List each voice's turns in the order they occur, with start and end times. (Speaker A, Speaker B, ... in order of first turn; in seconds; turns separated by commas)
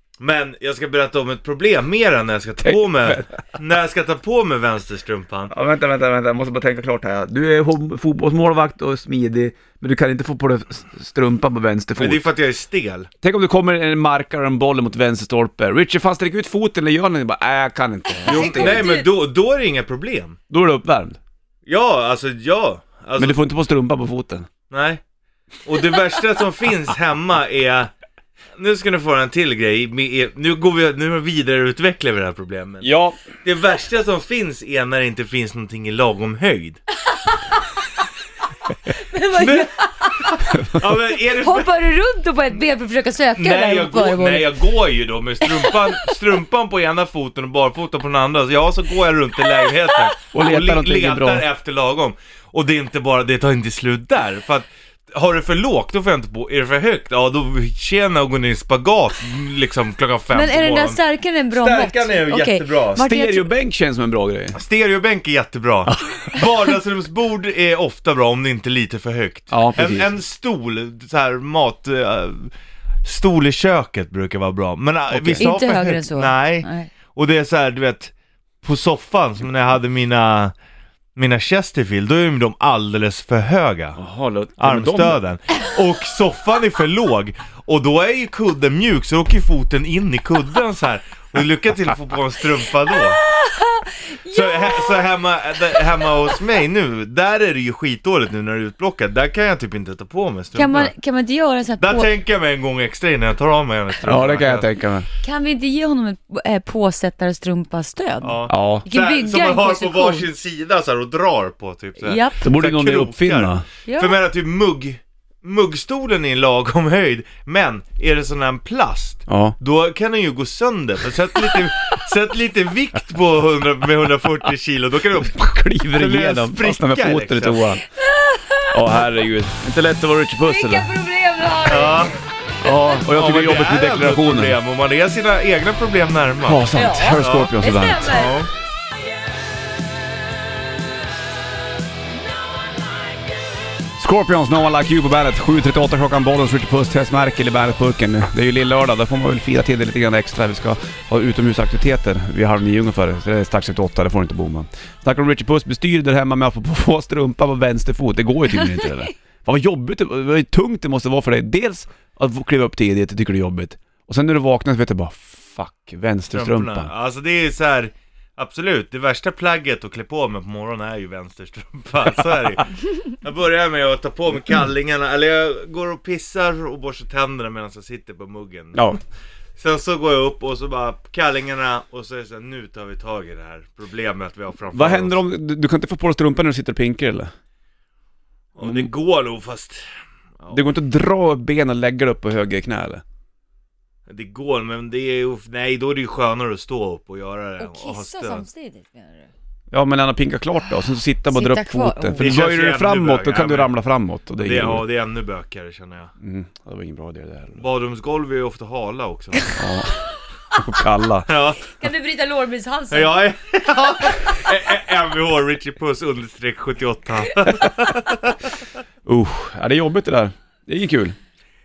Speaker A: 0.2-5.5, Speaker B: 2.6-3.3, Speaker B: 5.5-12.2, Speaker A: 12.0-13.1, Speaker B: 13.2-18.9, Speaker C: 18.2-19.1, Speaker A: 18.2-20.4, Speaker B: 20.5-21.2, Speaker A: 21.7-23.4, Speaker B: 23.2-24.5, Speaker A: 24.7-25.0, Speaker A: 25.6-27.9, Speaker A: 28.6-32.9, Speaker B: 32.8-33.2, Speaker A: 33.4-36.8, Speaker C: 38.9-40.4, Speaker A: 39.3-41.8, Speaker C: 41.3-44.6, Speaker A: 43.3-61.0, Speaker C: 45.5-45.9, Speaker B: 50.3-51.5, Speaker C: 60.3-63.5, Speaker A: 61.5-63.0, Speaker B: 63.0-64.6, Speaker A: 64.5-72.5, Speaker B: 69.5-70.1, Speaker A: 73.0-80.5, Speaker B: 75.1-75.5, Speaker C: 75.4-76.9, Speaker A: 81.2-84.0, Speaker B: 84.0-85.2, Speaker A: 84.6-93.2, Speaker C: 92.9-95.1, Speaker A: 94.3-100.9, Speaker C: 100.5-102.1, Speaker A: 101.8-104.7, Speaker B: 104.0-105.1, Speaker C: 105.2-110.3, Speaker A: 108.2-127.8, Speaker B: 108.5-108.9, Speaker C: 112.0-112.5, Speaker B: 112.4-113.7, Speaker C: 113.9-114.2, Speaker B: 119.3-119.6, Speaker B: 125.3-127.8, Speaker C: 128.0-128.8, Speaker B: 128.7-130.9, Speaker C: 130.4-132.2, Speaker A: 131.6-132.2, Speaker B: 132.6-134.6, Speaker A: 133.1-136.6, Speaker B: 136.4-138.2, Speaker C: 136.7-138.4, Speaker A: 137.2-138.5, Speaker B: 144.0-166.9, Speaker A: 166.3-172.7, Speaker A: 173.2-179.0, Speaker A: 179.6-185.2, Speaker B: 184.7-187.3, Speaker A: 188.6-189.8, Speaker B: 188.6-188.9, Speaker B: 190.5-193.0, Speaker A: 194.1-198.4, Speaker C: 197.6-199.3, Speaker B: 199.7-204.8, Speaker C: 201.3-202.3, Speaker A: 202.2-203.7, Speaker A: 204.4-206.1, Speaker B: 206.2-207.6, Speaker A: 207.6-209.5, Speaker B: 209.6-210.0, Speaker B: 210.6-211.3, Speaker A: 211.3-211.8, Speaker C: 211.7-213.2, Speaker A: 212.9-218.6, Speaker B: 219.1-221.2